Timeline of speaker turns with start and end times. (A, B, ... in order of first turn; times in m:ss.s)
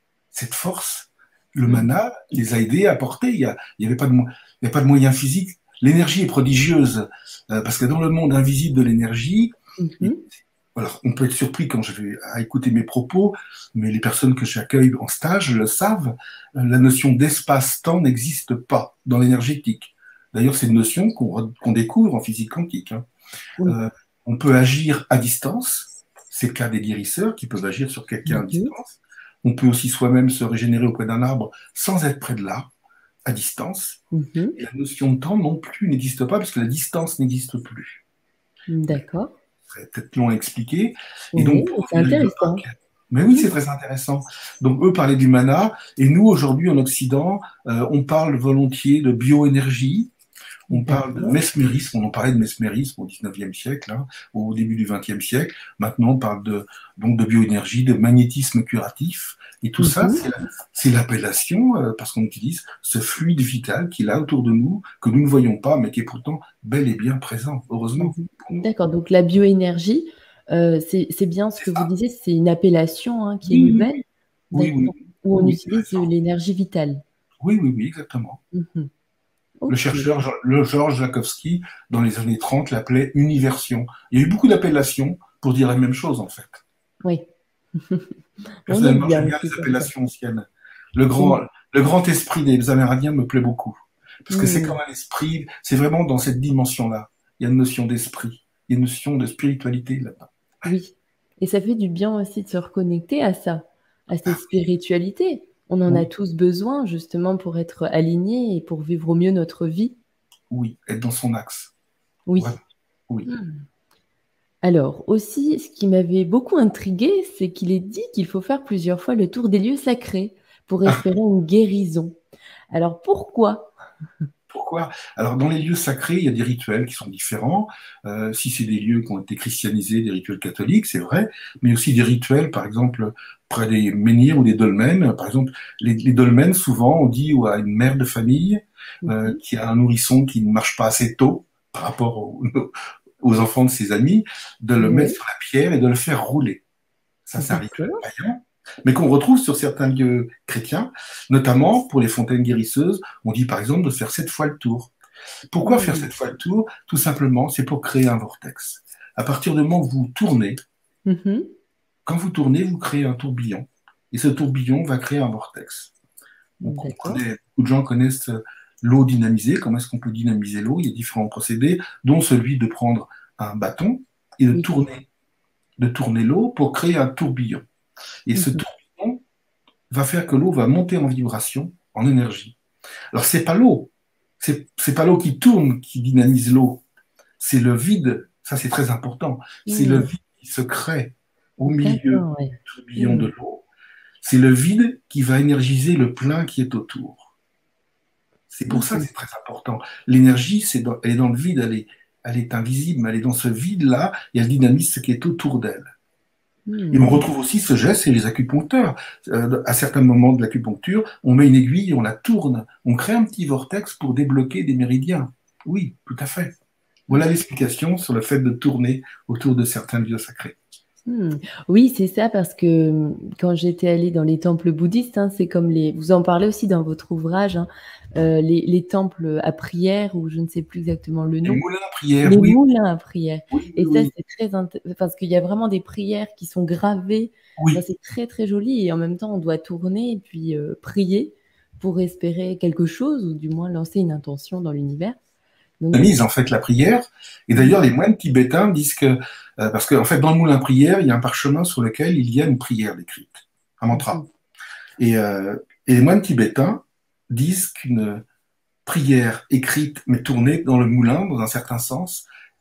0:00.3-0:23.0 A
0:09.8-0:10.2 B
0:23.6-0:32.7 A
0:28.3-0:28.7 B
0:33.2-0:34.0 A
0:34.1-0:34.6 B
0:34.6-0:38.0 A
0:38.7-0:39.4 B
0:39.7-0:50.1 A
0:41.3-0:42.6 B
0:50.7-0:51.4 B
0:50.7-1:08.7 A
0:59.8-1:00.2 B
1:08.0-1:14.0 B
1:11.6-1:11.9 A
1:13.4-1:16.1 A
1:14.5-1:17.0 B
1:17.4-1:18.4 A
1:18.5-1:18.9 B
1:19.6-1:20.1 B
1:19.7-1:26.6 A
1:27.8-1:28.1 B
1:28.6-1:29.9 B
1:28.7-1:40.3 A
1:34.3-1:34.8 B
1:40.6-1:50.0 B
1:44.3-1:44.5 A
1:50.5-1:51.7 A
1:52.3-1:52.6 B
1:52.4-1:53.3 A
1:53.2-1:53.6 B
1:54.6-2:02.2 B
2:02.7-2:03.7 B
2:04.5-2:26.6 A
2:19.0-2:19.4 B
2:24.8-2:25.2 B
2:27.2-2:34.9 A
2:27.4-2:28.0 B
2:35.5-2:40.6 A
2:35.6-2:36.1 B
2:41.0-2:41.5 B
2:42.0-2:45.9 A
2:46.6-2:47.2 B
2:46.6-2:55.0 A
2:55.8-2:57.6 A
2:58.3-2:59.2 A
2:58.3-2:58.6 B
2:59.9-3:02.6 A
3:03.1-3:06.8 A
3:07.4-3:13.6 A
3:09.6-3:10.1 B
3:11.6-3:13.3 B
3:14.2-3:17.3 A
3:18.5-3:25.9 A
3:18.7-3:19.1 B
3:26.7-3:27.2 B
3:26.9-3:36.5 A
3:37.1-3:40.6 A
3:41.0-3:51.6 B
3:51.4-3:52.6 A
3:52.2-4:05.2 B
3:53.5-3:54.1 A
4:05.8-4:06.2 B
4:05.9-4:14.2 A
4:13.9-4:14.2 B
4:15.0-4:18.2 A
4:18.8-4:22.2 A